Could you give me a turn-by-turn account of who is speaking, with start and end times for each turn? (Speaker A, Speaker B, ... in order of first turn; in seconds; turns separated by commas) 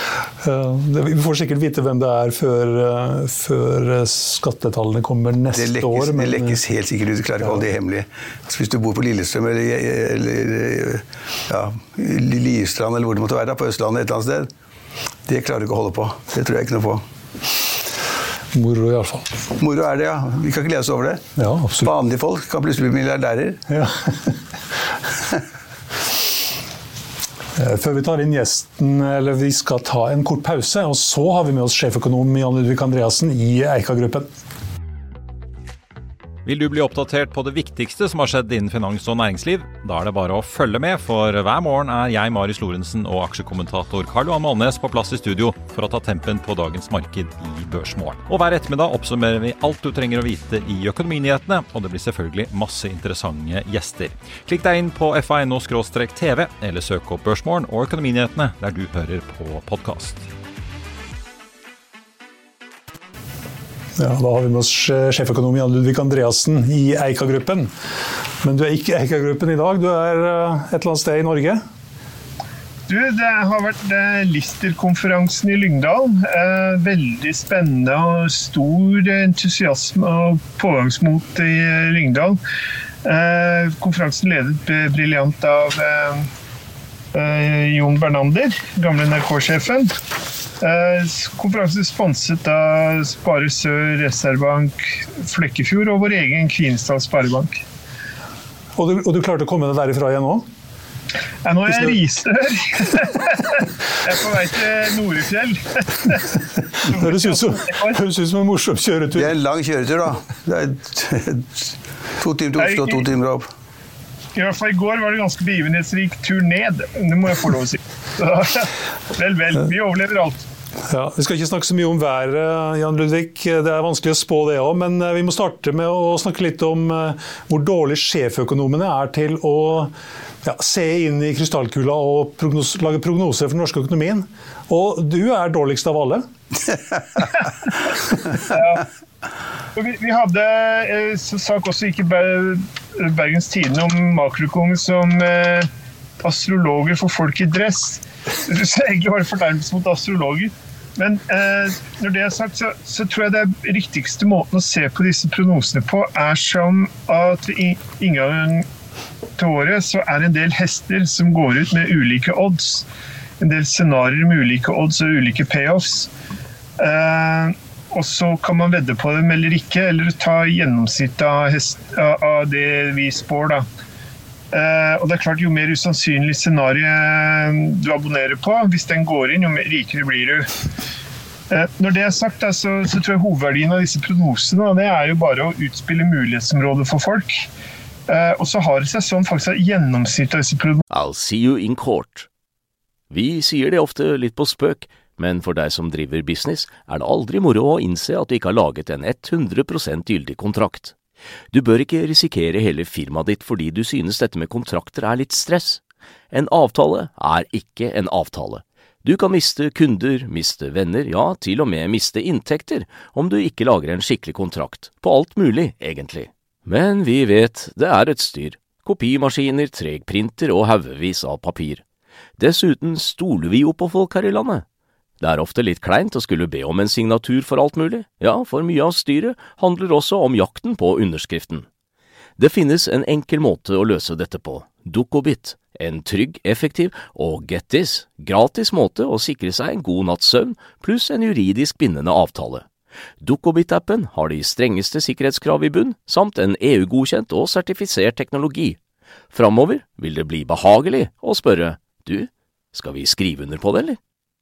Speaker A: 0.4-6.6, Speaker B: 5.5-14.5, Speaker B: 15.3-17.0, Speaker A: 18.5-19.3, Speaker B: 19.6-21.2, Speaker A: 21.4-21.9, Speaker B: 21.8-23.6, Speaker A: 23.7-24.3, Speaker A: 27.6-34.3, Speaker C: 36.4-60.2, Speaker A: 64.0-67.7, Speaker A: 68.4-71.6, Speaker D: 72.9-82.4, Speaker D: 83.0-86.3, Speaker D: 87.1-89.9, Speaker D: 90.6-97.6, Speaker A: 98.8-100.4, Speaker D: 101.4-108.0, Speaker A: 106.7-109.3, Speaker B: 109.1-113.5, Speaker D: 112.6-113.0, Speaker D: 114.3-120.4, Speaker A: 120.9-129.9, Speaker A: 130.4-136.2, Speaker D: 138.4-138.8, Speaker D: 139.8-145.7, Speaker D: 146.2-158.7, Speaker D: 159.4-162.8, Speaker D: 163.4-166.1, Speaker D: 166.8-173.6, Speaker D: 174.5-180.5, Speaker D: 181.5-187.5, Speaker D: 188.1-190.8, Speaker E: 190.9-192.3, Speaker E: 193.1-200.9, Speaker E: 201.5-221.8, Speaker E: 222.4-224.6, Speaker E: 225.2-231.7, Speaker E: 232.4-242.7, Speaker E: 243.2-248.8, Speaker E: 249.3-254.0